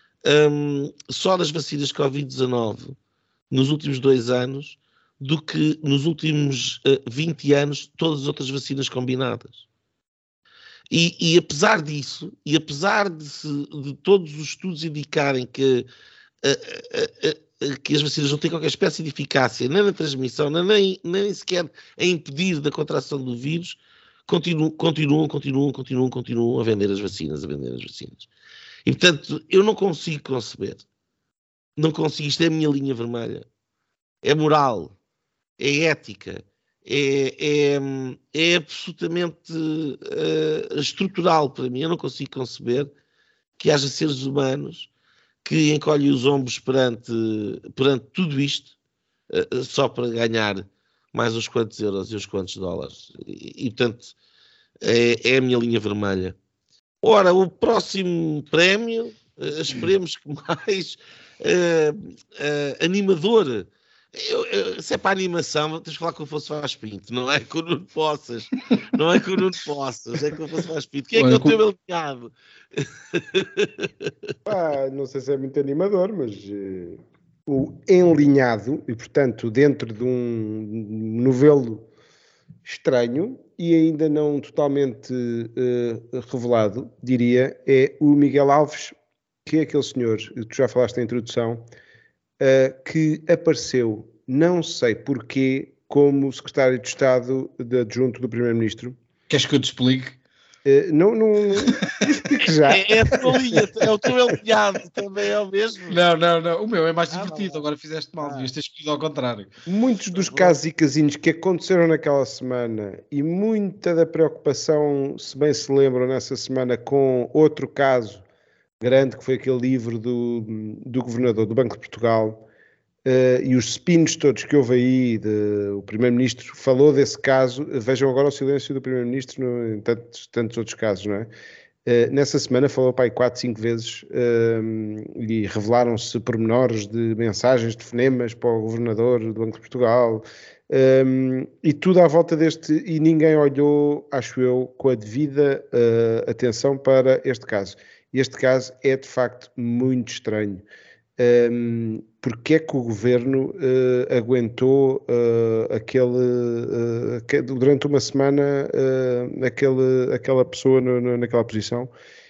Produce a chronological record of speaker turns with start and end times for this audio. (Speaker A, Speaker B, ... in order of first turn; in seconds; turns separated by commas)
Speaker A: 0.2-2.9, Speaker A: 3.5-9.6, Speaker A: 10.9-15.9, Speaker A: 16.4-28.3, Speaker A: 28.9-30.8, Speaker A: 31.8-33.5, Speaker A: 34.2-34.9, Speaker A: 35.6-42.9, Speaker A: 43.6-44.9, Speaker A: 45.4-48.7, Speaker A: 49.3-54.1, Speaker A: 54.8-56.3, Speaker A: 57.0-74.1, Speaker B: 71.1-71.6, Speaker C: 74.5-81.8, Speaker C: 82.6-88.9, Speaker C: 89.5-91.6, Speaker C: 92.4-99.0, Speaker B: 99.3-100.2, Speaker C: 100.6-103.7, Speaker B: 101.6-101.9, Speaker A: 102.7-106.0, Speaker B: 105.9-109.5, Speaker A: 107.1-107.6, Speaker C: 109.7-118.2, Speaker A: 110.1-110.5, Speaker C: 118.8-122.4, Speaker C: 123.0-131.3, Speaker C: 131.8-150.6, Speaker C: 151.2-161.9